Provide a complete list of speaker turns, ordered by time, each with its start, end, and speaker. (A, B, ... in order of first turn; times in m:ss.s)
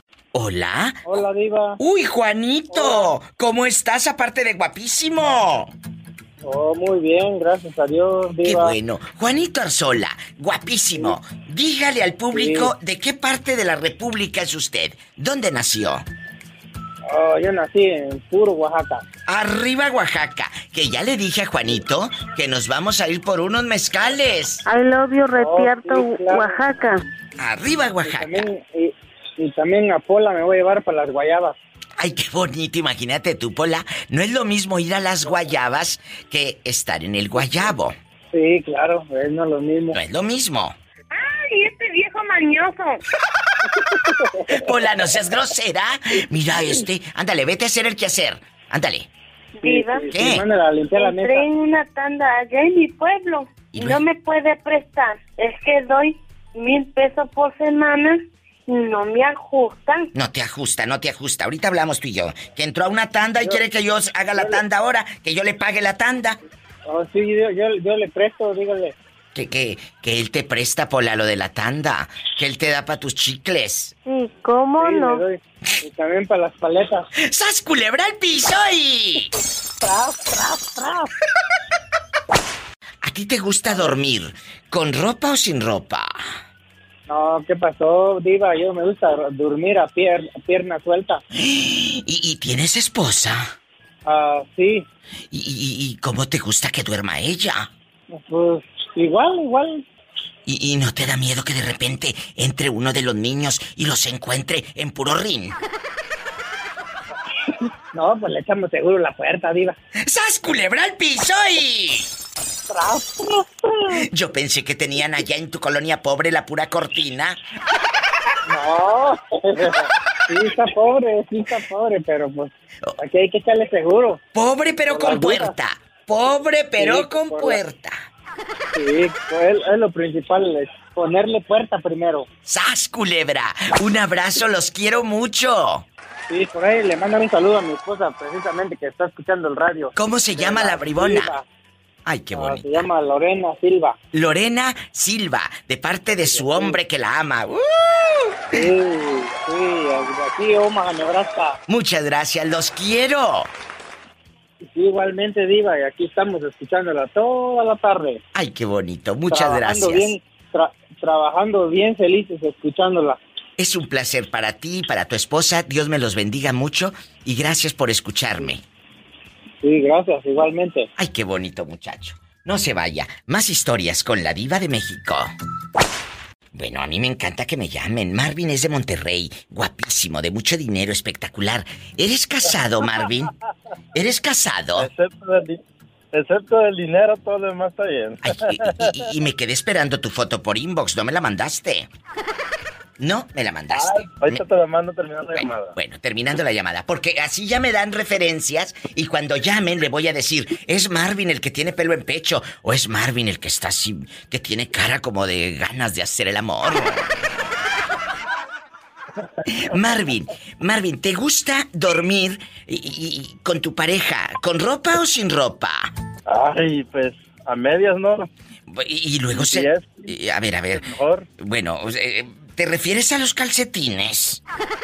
0:00.3-0:01.1 A
0:01.0-0:01.8 B
0:01.8-0:05.7 A
0:02.7-0:03.1 B
0:06.4-0:08.7 B
0:08.4-0:16.0 A
0:12.3-0:12.7 B
0:17.1-0:19.0 B
0:19.3-0:24.6 A
0:24.6-0:27.0 C
0:25.3-0:26.6 B
0:27.4-0:28.4 A
0:28.0-0:31.6 B
0:32.0-0:38.0 A
0:38.3-0:40.0 B
0:39.9-0:40.8 A
0:41.1-0:43.0 D
0:44.5-0:49.1 A
0:49.6-0:50.1 D
0:49.6-0:51.5 B
0:50.1-0:50.4 A
0:50.9-1:00.1 D
0:53.7-0:54.0 A
1:00.1-1:06.4 A
1:06.8-1:08.9 B
1:09.3-1:13.9 A
1:14.0-1:15.2 C
1:14.8-1:17.0 B
1:17.2-1:19.3 A
1:19.8-1:21.1 B
1:23.0-1:26.2 A
1:27.1-1:31.2 B
1:31.3-1:33.5 A
1:34.0-1:34.8 B
1:35.3-1:37.7 A
1:38.1-1:39.8 B
1:40.4-1:45.6 A
1:47.9-1:49.8 B
1:50.0-1:52.1 A
1:52.7-1:53.7 B
1:53.9-1:57.4 A
1:58.5-2:04.2 B
2:04.3-2:08.0 A
2:04.9-2:05.5 B
2:06.8-2:07.6 B
2:08.7-2:12.3 B
2:12.4-2:15.8 A
2:16.3-2:21.4 B
2:20.0-2:21.3 A
2:22.0-2:22.8 A
2:22.3-2:24.0 B
2:24.1-2:28.6 A
2:26.2-2:26.8 B
2:28.5-2:31.6 B
2:31.7-2:33.5 A
2:34.6-2:38.2 B
2:38.3-2:40.1 A
2:39.3-2:43.2 B
2:43.6-2:48.6 A
2:49.6-2:50.9 B
2:51.0-2:55.3 A
2:56.5-3:03.3 A
3:03.9-3:04.9 A
3:04.8-3:05.6 E
3:06.1-3:08.9 E
3:08.2-3:11.9 A
3:13.0-3:14.4 A
3:13.7-3:15.8 E
3:15.3-3:27.3 A
3:29.5-3:35.9 A
3:36.2-3:38.3 E
3:38.7-3:44.4 A
3:39.3-3:40.1 E
3:40.7-3:41.3 E